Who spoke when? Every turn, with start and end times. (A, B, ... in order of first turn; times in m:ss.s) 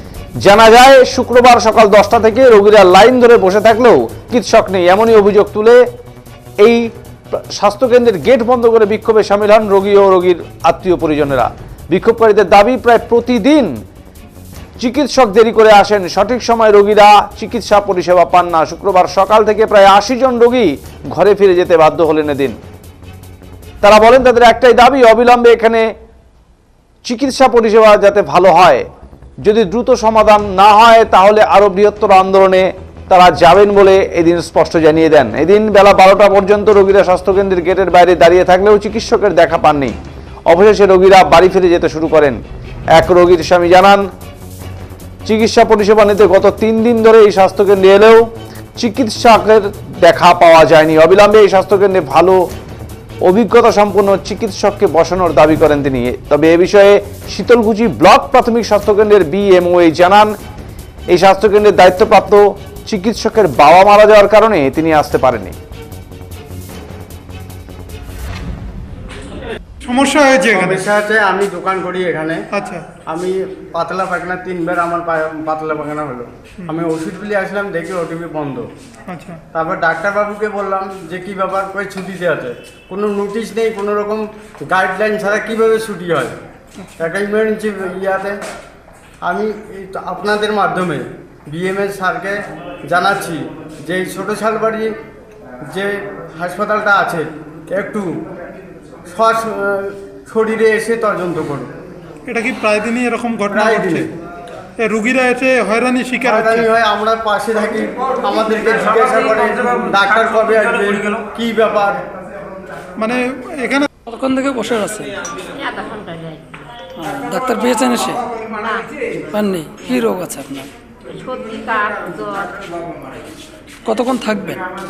0:00.4-0:05.8 A
0:06.6-0:13.7 A
0:14.8-0:22.6 A
0:23.8-0:25.9 A
0:27.1-0:28.8 A
0:29.5-0:40.0 A
0:40.5-0:42.4 A
0:43.0-0:44.0 A
0:45.3-0:52.4 A
0:53.2-1:00.3 A
1:01.1-1:05.6 A
1:09.8-1:10.8 B
1:10.5-1:12.4 C
1:12.5-1:12.9 B
1:13.1-1:18.7 C
1:19.1-1:19.4 B
1:19.5-1:26.3 C
1:27.0-1:28.4 C
1:29.2-1:32.4 C
1:32.9-1:34.9 C
1:35.7-1:38.1 C
1:39.1-1:41.7 C
1:42.3-1:44.1 B
1:43.5-1:44.1 C
1:44.8-1:46.5 B
1:46.2-1:52.0 C
1:53.0-1:53.9 B
1:54.1-1:55.2 D
1:55.4-1:56.5 E
1:56.9-1:58.5 D
1:58.5-1:58.9 E
1:59.2-2:00.7 D
2:01.1-2:02.8 E
2:03.8-2:04.7 D